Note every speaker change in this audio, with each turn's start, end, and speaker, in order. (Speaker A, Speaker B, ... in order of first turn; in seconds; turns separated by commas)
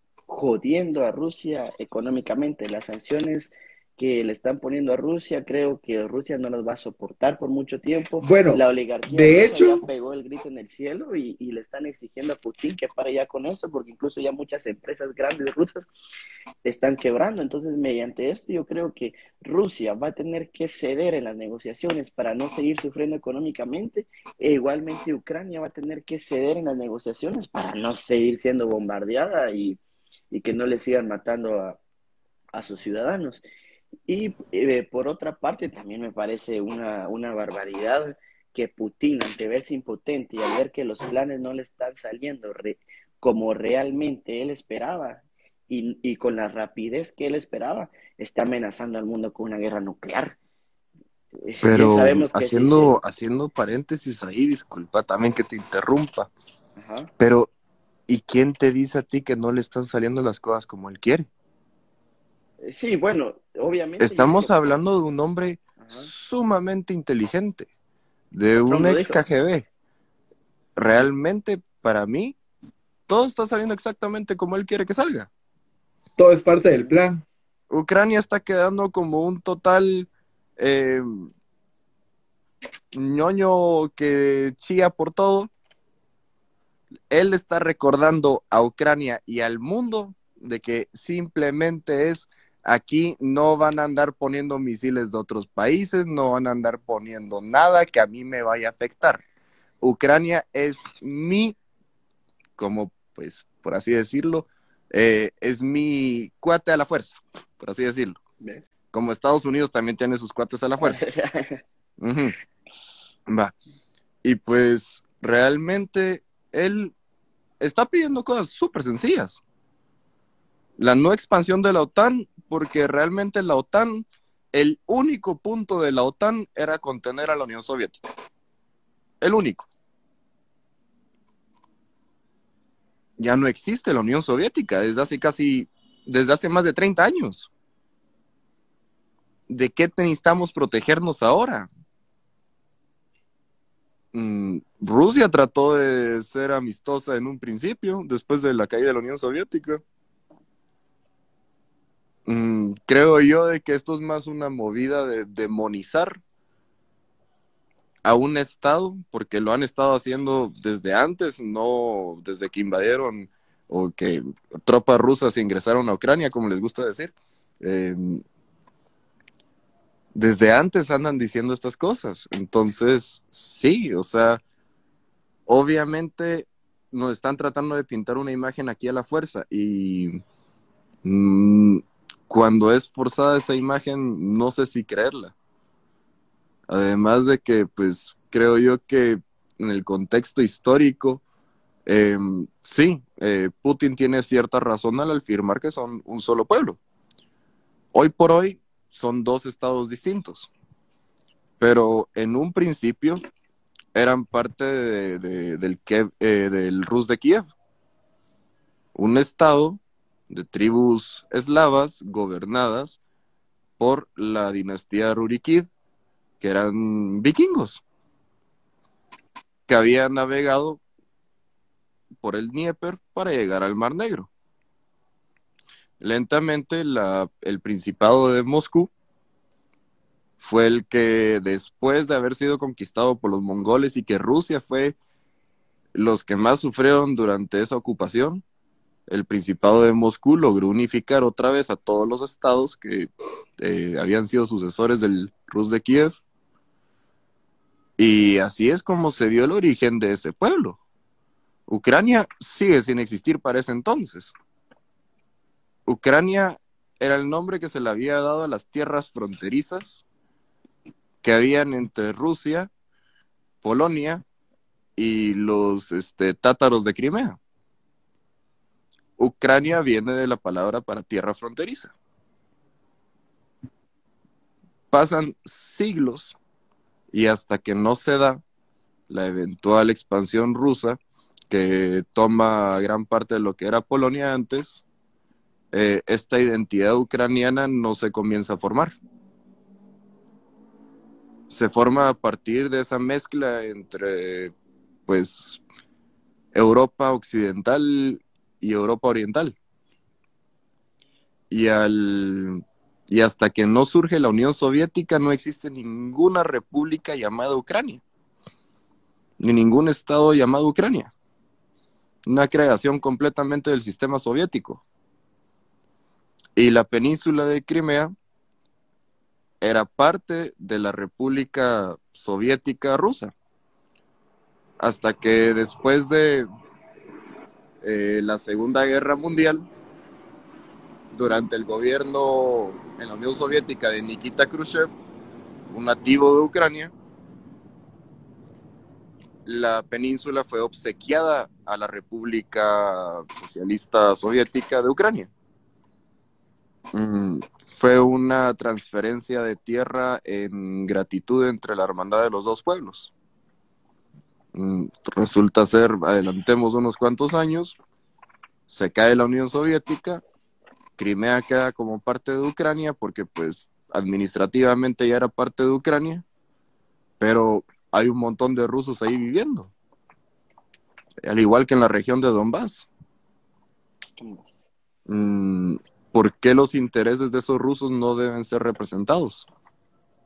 Speaker A: 0.3-15.9, Speaker B: 8.2-9.8, Speaker A: 16.6-29.8, Speaker A: 30.3-31.8, Speaker A: 32.5-33.4, Speaker A: 34.1-50.4, Speaker A: 51.4-53.0, Speaker C: 51.6-56.3, Speaker A: 56.8-57.1, Speaker C: 57.2-57.5, Speaker C: 58.1-61.3, Speaker A: 62.6-64.5, Speaker C: 64.0-67.7, Speaker A: 65.8-66.1, Speaker C: 68.3-69.7, Speaker A: 68.7-69.2, Speaker C: 70.8-72.4, Speaker C: 73.1-75.3, Speaker B: 76.2-77.2, Speaker C: 77.7-81.3, Speaker C: 82.9-85.5, Speaker C: 87.1-99.2, Speaker C: 99.8-101.6, Speaker C: 102.6-108.2, Speaker C: 108.9-111.0, Speaker A: 110.8-111.6, Speaker C: 112.0-112.4, Speaker C: 113.3-113.5, Speaker C: 114.2-116.9, Speaker C: 117.6-119.4, Speaker C: 120.8-128.1, Speaker C: 129.2-129.7, Speaker C: 133.2-137.5, Speaker C: 139.5-141.7, Speaker C: 144.1-149.8, Speaker C: 152.3-156.2, Speaker C: 158.0-168.2, Speaker C: 170.2-174.4, Speaker C: 175.5-180.2, Speaker C: 181.0-185.3, Speaker C: 186.7-191.2, Speaker C: 191.9-196.8, Speaker C: 197.9-200.5, Speaker C: 201.6-203.2, Speaker C: 203.9-207.5, Speaker C: 208.9-213.0, Speaker C: 213.8-215.7, Speaker C: 216.4-217.8, Speaker C: 219.7-220.8, Speaker C: 222.2-224.3, Speaker C: 226.0-228.9, Speaker C: 230.4-235.0, Speaker C: 235.9-238.4, Speaker C: 239.1-246.2, Speaker C: 248.0-250.8, Speaker C: 251.7-254.3, Speaker C: 255.9-260.1, Speaker C: 261.2-262.7, Speaker C: 263.6-264.2, Speaker C: 265.0-267.4, Speaker C: 269.2-271.9, Speaker C: 274.9-276.4, Speaker C: 277.1-278.4, Speaker C: 279.1-281.0, Speaker C: 281.5-284.8, Speaker C: 285.7-288.9, Speaker C: 291.5-294.5, Speaker C: 295.1-295.6, Speaker C: 296.5-299.6, Speaker C: 301.5-308.0, Speaker C: 309.4-311.1, Speaker C: 312.3-314.8, Speaker C: 316.6-318.1, Speaker C: 319.6-323.3, Speaker C: 324.8-326.5, Speaker C: 327.8-329.7, Speaker C: 331.1-334.9, Speaker C: 335.7-336.9, Speaker C: 339.5-345.3, Speaker C: 346.9-353.1, Speaker C: 354.5-357.8, Speaker C: 358.7-360.2, Speaker C: 361.0-366.2, Speaker C: 367.2-369.7, Speaker C: 371.2-372.9, Speaker A: 374.2-374.6, Speaker C: 375.1-379.5